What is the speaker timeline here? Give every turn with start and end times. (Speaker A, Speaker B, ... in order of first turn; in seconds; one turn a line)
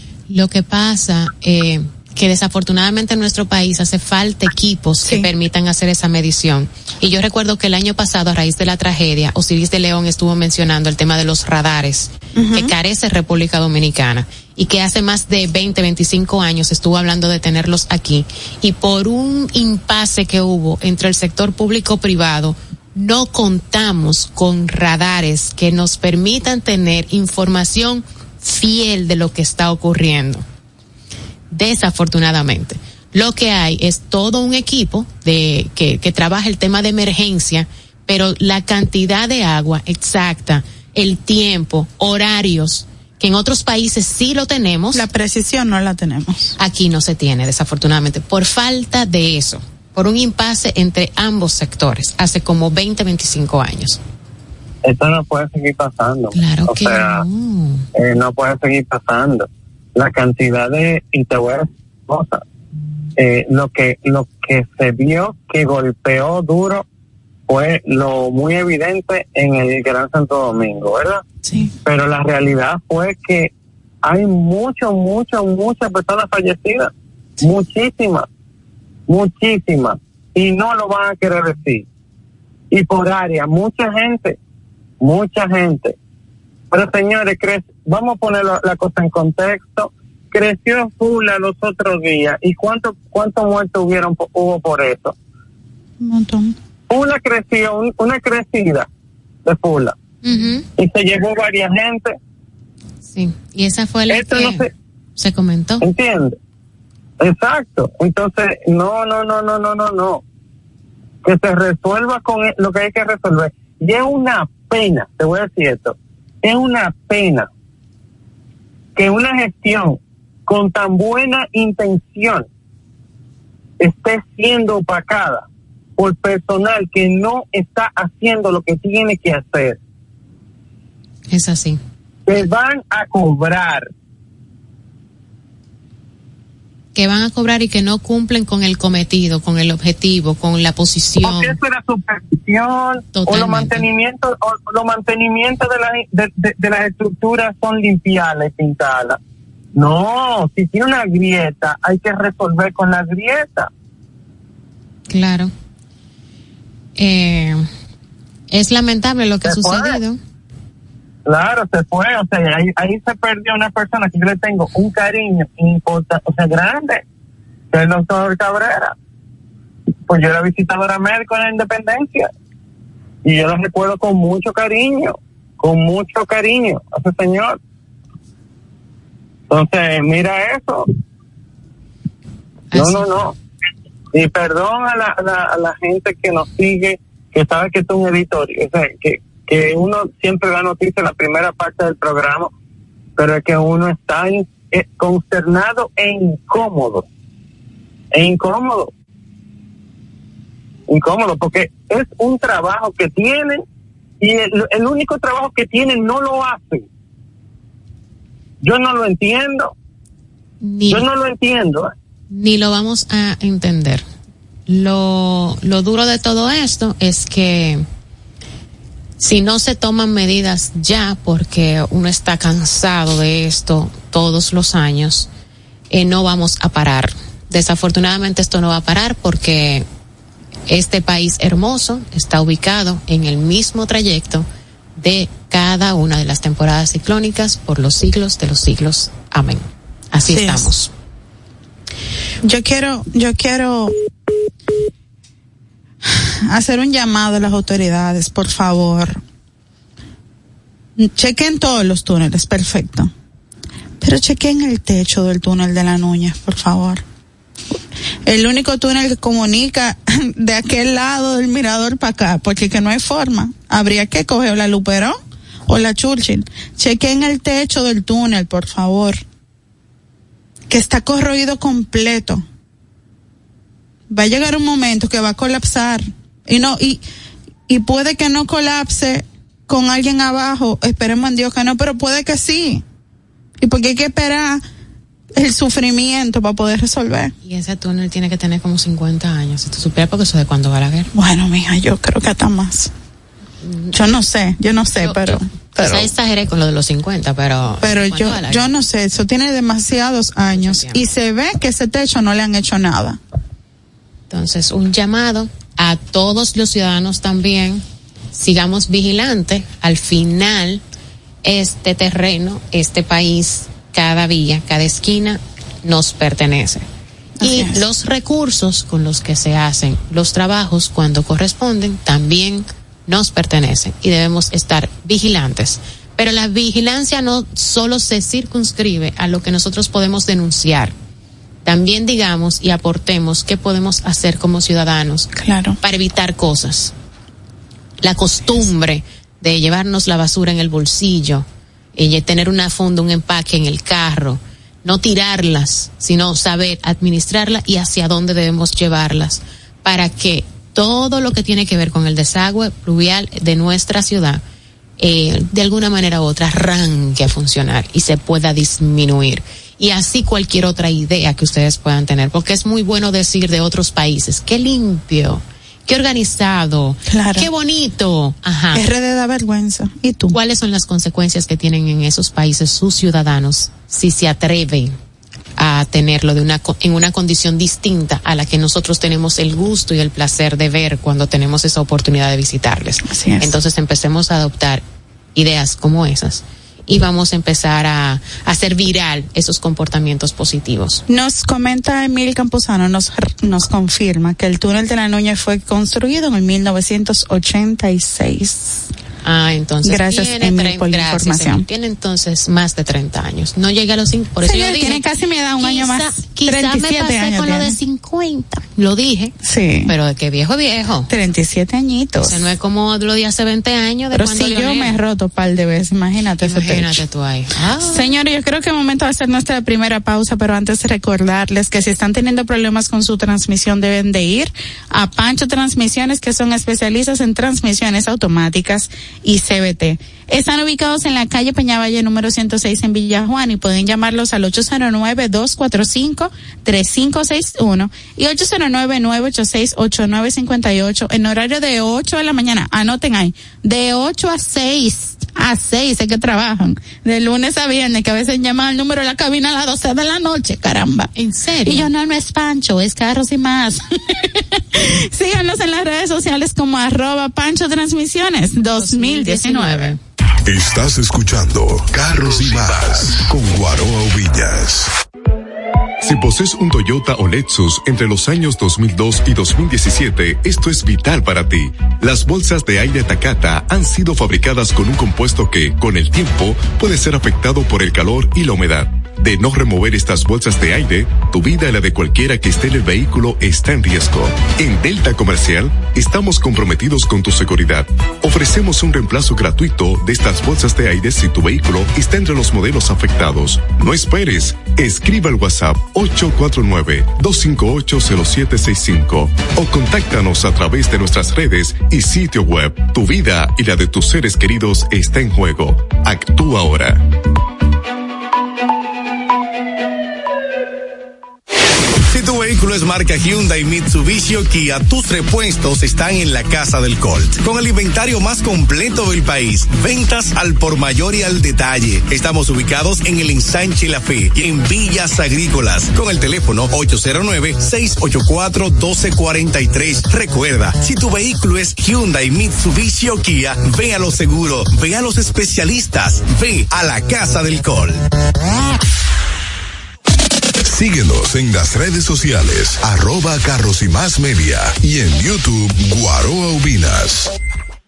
Speaker A: 0.3-30.4
Speaker B: 5.0-5.3
Speaker B: 12.3-12.7
Speaker A: 31.5-45.0
Speaker B: 44.9-46.5
Speaker A: 46.6-54.0
Speaker C: 54.8-57.2
Speaker A: 56.3-57.9
Speaker C: 57.9-62.4
Speaker C: 63.2-66.8
Speaker C: 67.5-71.2
Speaker B: 71.4-71.7
Speaker C: 71.8-73.5
Speaker C: 74.0-78.3
Speaker C: 79.1-81.8
Speaker C: 82.7-84.4
Speaker C: 85.0-85.9
Speaker C: 86.7-95.1
Speaker B: 96.0-96.5
Speaker C: 96.9-98.9
Speaker C: 99.4-99.9
Speaker A: 100.2-100.7
Speaker C: 100.8-102.1
Speaker A: 103.1-105.8
Speaker C: 104.1-104.7
Speaker C: 105.8-106.3
Speaker C: 107.2-110.2
Speaker C: 111.2-117.5
Speaker C: 119.0-122.5
Speaker C: 123.8-125.4
Speaker C: 126.0-129.8
Speaker A: 131.3-131.8
Speaker C: 132.3-133.9
Speaker A: 136.9-141.6
Speaker C: 141.2-149.2
Speaker A: 143.1-143.8
Speaker C: 149.7-153.7
Speaker A: 155.1-155.5
Speaker A: 157.0-157.7
Speaker A: 158.5-160.2
Speaker C: 159.4-160.0
Speaker C: 161.2-167.0
Speaker C: 167.7-168.9
Speaker C: 170.1-172.3
Speaker C: 173.2-177.6
Speaker C: 179.5-180.8
Speaker A: 182.7-183.1
Speaker C: 182.7-183.3
Speaker C: 184.1-192.5
Speaker C: 193.2-197.1
Speaker C: 198.1-198.9
Speaker C: 200.9-203.6
Speaker C: 204.2-206.8
Speaker C: 208.6-209.7
Speaker A: 210.6-211.1
Speaker C: 210.9-211.9
Speaker A: 212.3-214.0
Speaker A: 214.7-217.8
Speaker A: 219.2-225.3
Speaker A: 225.9-229.8
Speaker A: 230.7-234.4
Speaker A: 235.0-240.9
Speaker B: 240.2-240.7
Speaker B: 242.4-243.9
Speaker B: 246.1-249.2
Speaker B: 251.0-253.1
Speaker B: 254.0-257.0
Speaker B: 257.7-269.2
Speaker B: 270.7-272.4
Speaker B: 274.1-277.0
Speaker B: 277.7-282.8
Speaker B: 283.6-284.6
Speaker B: 285.3-287.3
Speaker A: 287.4-291.1
Speaker B: 291.1-292.9
Speaker A: 293.6-294.1
Speaker B: 293.9-296.1
Speaker A: 295.0-298.7
Speaker B: 297.8-303.2
Speaker A: 300.5-301.0
Speaker A: 304.3-310.8
Speaker A: 311.4-316.9
Speaker B: 317.4-317.8
Speaker A: 317.4-330.9
Speaker A: 331.6-336.9
Speaker B: 335.4-335.8
Speaker A: 338.0-354.4
Speaker A: 355.0-368.8
Speaker B: 367.1-367.5
Speaker B: 368.7-370.4
Speaker A: 370.3-374.9
Speaker A: 375.6-384.8
Speaker B: 383.1-383.6
Speaker A: 385.3-391.0
Speaker B: 391.1-398.9
Speaker A: 399.2-405.0
Speaker B: 399.8-401.6
Speaker B: 404.4-407.8
Speaker A: 405.6-409.3
Speaker B: 409.4-409.9
Speaker A: 409.9-411.1
Speaker B: 411.1-412.5
Speaker A: 412.2-415.0
Speaker B: 414.1-417.0
Speaker A: 416.4-418.1
Speaker B: 417.8-451.1
Speaker A: 451.1-451.9
Speaker B: 451.6-460.0
Speaker A: 458.8-460.0
Speaker D: 460.4-464.9
Speaker E: 466.0-507.0
Speaker F: 512.1-538.0
Speaker D: 540.6-547.3